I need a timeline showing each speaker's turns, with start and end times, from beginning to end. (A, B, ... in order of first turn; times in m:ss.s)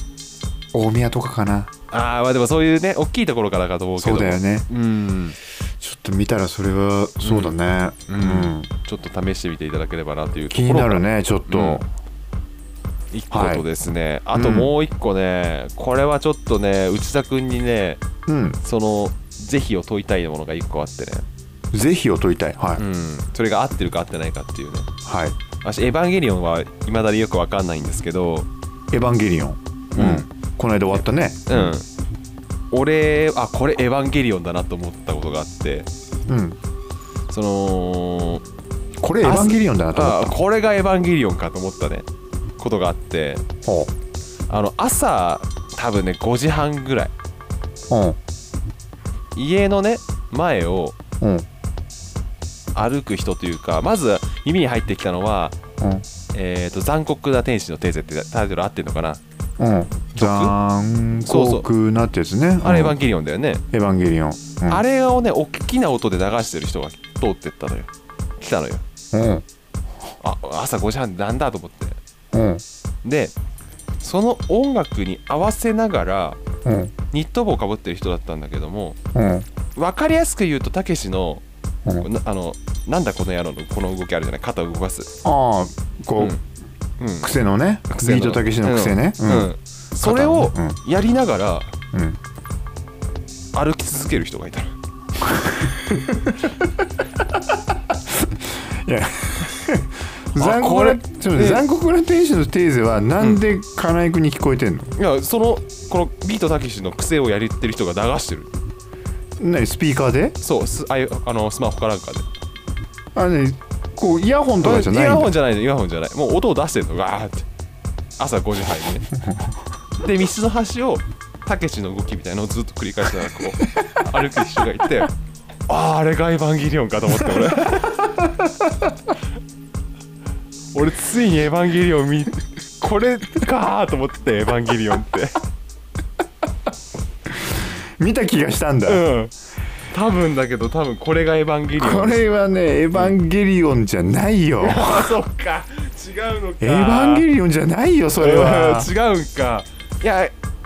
0:00.7-0:01.7 A
0:01.9-0:05.4 B
0:04.0-0:04.7 A
0:05.8-0:08.7 A
0:07.2-0:11.8 B
0:10.5-0:11.8 A
0:13.1-0:18.0 B
0:13.3-0:13.6 A
0:14.3-0:14.7 A
0:18.3-0:18.6 A
0:18.6-0:21.2 B
0:21.7-0:22.8 A
0:22.8-0:24.9 B
0:25.0-0:25.4 A
0:25.6-0:28.5 B
0:28.9-0:31.8 A
0:29.9-0:30.3 B
0:31.0-0:31.9 B
0:32.7-0:35.9 B
0:36.3-0:36.6 A
0:37.3-0:38.4 B
0:39.0-0:40.4 A
0:39.2-0:42.1 B
0:42.6-0:43.4 B
0:43.6-0:43.9 A
0:44.5-0:47.1 B
0:47.9-0:48.2 A
0:49.3-0:51.0 B
0:51.2-0:51.4 A
0:52.7-0:55.6 B
0:56.3-0:59.2 B
0:59.6-1:03.0 A
1:00.1-1:00.6 B
1:01.2-1:01.7 B
1:02.6-1:03.6 B
1:03.7-1:04.8 A
1:04.7-1:08.8 B
1:09.1-1:09.4 A
1:10.2-1:12.0 B
1:12.3-1:12.6 A
1:13.0-1:13.3 B
1:14.0-1:16.4 B
1:16.6-1:16.9 A
1:17.1-1:19.0 B
1:19.1-1:19.5 A
1:19.7-1:21.4 B
1:22.0-1:25.1 B
1:25.2-1:26.4 A
1:27.0-1:31.7 B
1:27.2-1:30.8 A
1:31.9-1:32.2 A
1:33.5-1:34.7 B
1:35.2-1:36.8 A
1:37.9-1:44.9 A
1:40.3-1:41.6 B
1:45.0-1:48.5 B
1:49.4-1:50.4 A
1:50.4-1:52.3 B
1:53.1-1:55.3 A
1:54.6-1:57.5 B
1:58.2-1:59.1 B
1:59.2-1:59.5 A
2:00.0-2:05.1 B
2:05.7-2:08.2 B
2:08.2-2:08.9 A
2:10.7-2:15.4 B
2:17.4-2:19.0 A
2:18.8-2:19.3 B
2:19.9-2:22.2 B
2:21.8-2:25.2 A
2:24.6-2:27.3 B
2:26.6-2:28.9 A
2:28.2-2:30.3 B